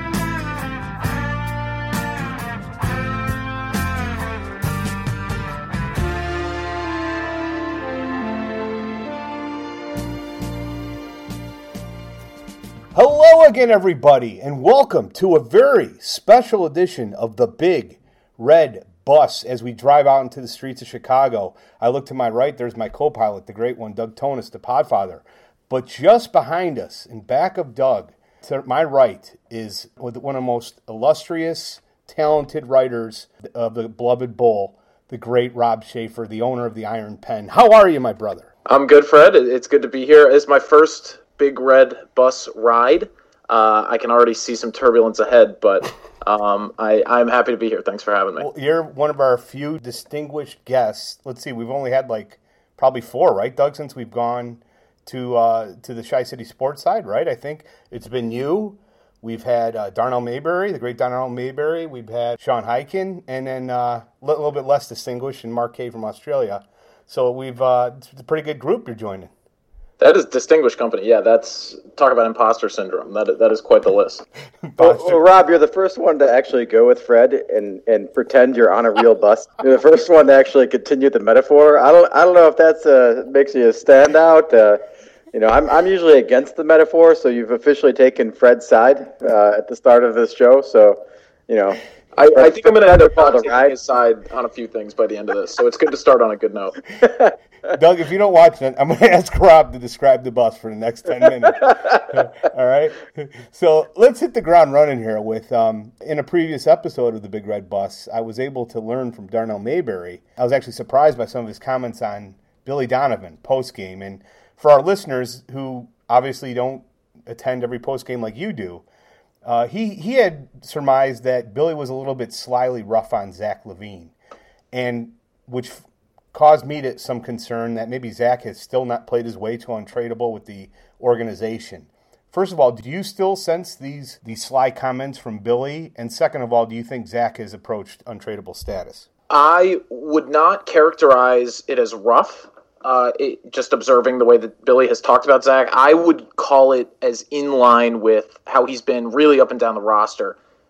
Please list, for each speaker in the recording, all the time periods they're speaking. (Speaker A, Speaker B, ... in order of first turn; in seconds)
Speaker A: 12.9-38.5, 48.4-69.3, 74.6-75.2, 97.7-118.8, 119.4-124.1, 124.7-139.1
Speaker B: 38.6-48.5, 70.0-74.2, 92.1-96.8, 139.3-150.4
Speaker C: 74.8-84.8, 85.3-91.8, 92.3-93.7, 97.0-97.3